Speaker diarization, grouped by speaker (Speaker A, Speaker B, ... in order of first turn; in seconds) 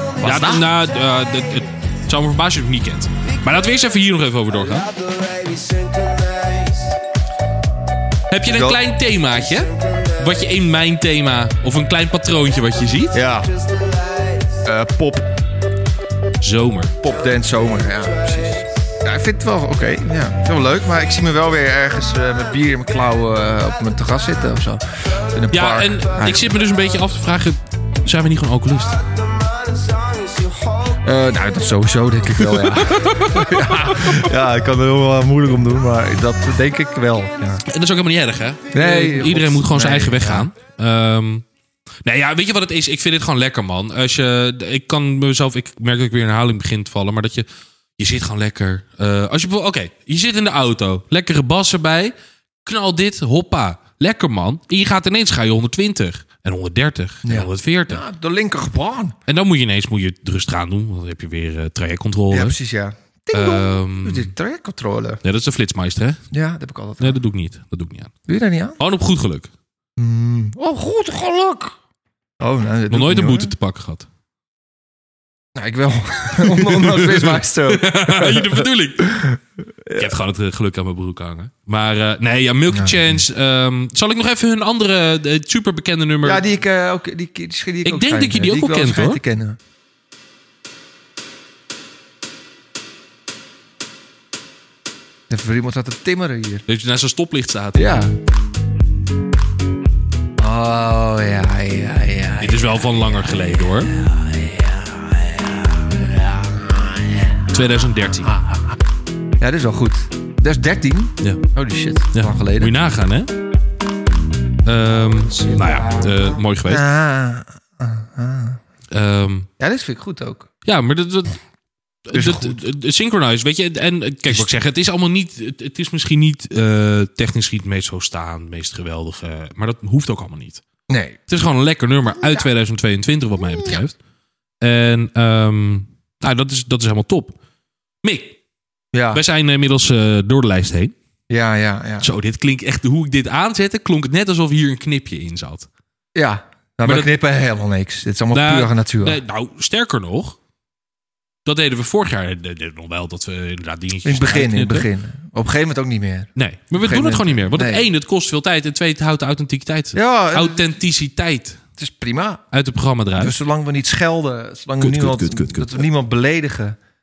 Speaker A: 0.2-0.7, 8.4-8.8, 13.1-13.5, 14.7-15.3, 17.0-26.5, 31.0-37.6, 38.7-40.5, 57.2-59.2, 62.3-65.2, 66.3-67.2, 68.3-68.8, 70.0-71.8, 72.4-73.5, 75.5-80.1, 82.7-83.2, 86.2-89.6, 95.3-96.7, 97.8-98.1, 100.4-107.5, 108.1-108.8, 109.4-112.8, 116.7-118.6, 119.6-120.5, 122.1-122.6, 124.3-124.6, 130.9-131.2, 132.2-132.5, 138.9-139.2, 141.3-142.1, 146.1-149.2, 154.0-157.9, 159.9-160.7, 161.8-162.4, 163.2-166.8
Speaker B: 0.2-4.9, 8.3-13.2, 16.4-17.0, 25.5-29.0, 32.6-34.3, 37.7-41.5, 42.0-47.5, 48.0-52.1, 52.6-58.0, 59.3-62.6, 63.3-64.3, 65.2-66.2, 67.0-68.1, 68.8-69.5, 72.9-74.1, 76.4-79.2, 80.0-86.5, 87.8-89.2, 96.7-97.9, 102.4-103.9, 107.5-108.4, 112.1-113.3, 114.7-116.8, 118.9-119.5, 120.7-121.4, 122.1-130.6, 131.3-134.0, 134.6-137.4, 138.0-138.4, 139.1-140.9, 142.0-145.7, 146.8-147.1, 148.3-150.4, 151.5-154.9, 156.4-161.6, 162.5-163.3, 164.8-165.9